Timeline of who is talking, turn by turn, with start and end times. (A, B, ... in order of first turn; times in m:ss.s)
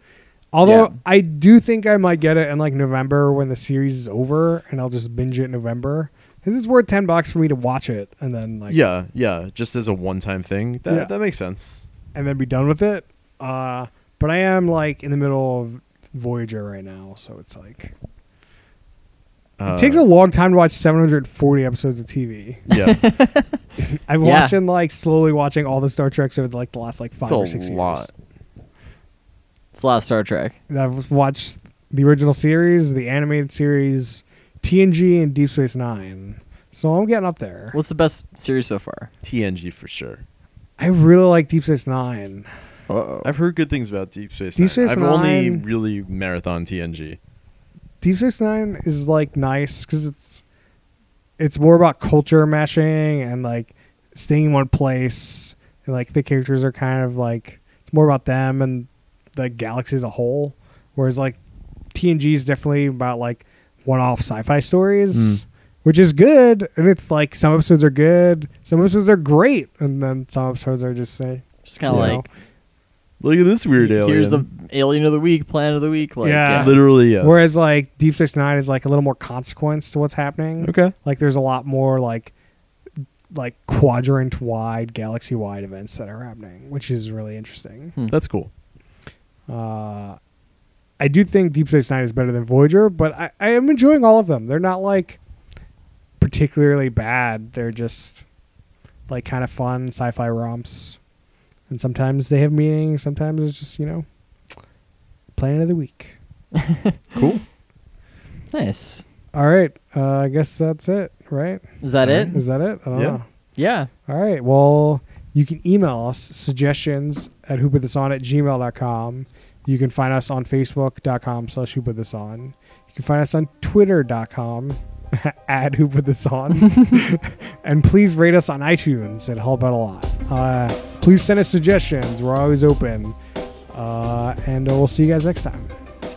0:00.5-0:08.8 A
0:00.6-0:00.9 B
0:08.7-0:11.8 C
0:12.1-0:17.9 A
0:19.6-0:20.0 C
0:19.7-0:22.6 A
0:22.7-0:23.0 C
0:22.7-0:23.6 B
0:23.8-0:28.1 A
0:24.2-0:24.6 B
0:27.2-0:28.1 C
0:29.7-0:30.6 B
0:30.7-0:37.8 A
0:37.7-0:39.1 B
0:39.2-0:40.2 C
0:40.8-0:42.5 A
0:42.9-0:43.3 B
0:43.2-0:47.2 C
0:44.6-0:45.6 A
0:48.0-0:50.4 A
0:51.4-1:01.4 A
1:01.9-1:12.3 A
1:05.1-1:05.4 C
1:11.6-1:12.3 B
1:11.9-1:12.2 C
1:13.2-1:14.4 C
1:13.8-1:16.8 B
1:16.2-1:22.3 A
1:16.5-1:17.6 C
1:20.6-1:20.9 C
1:23.3-1:28.0 A
1:28.1-1:28.5 C
1:29.5-1:30.2 A
1:31.0-1:35.2 A
1:36.2-1:38.2 A
1:39.1-1:41.0 A
1:41.7-1:44.0 A
1:45.4-1:46.2 A
1:46.6-1:47.0 B
1:47.1-1:47.4 C
1:48.5-1:49.0 B
1:49.3-1:51.6 A
1:51.8-1:52.4 B
1:52.0-1:52.4 C
1:52.3-1:53.2 A
1:52.9-1:53.2 C
1:53.6-1:53.9 B
1:54.1-2:13.2 A
2:13.7-2:15.7 A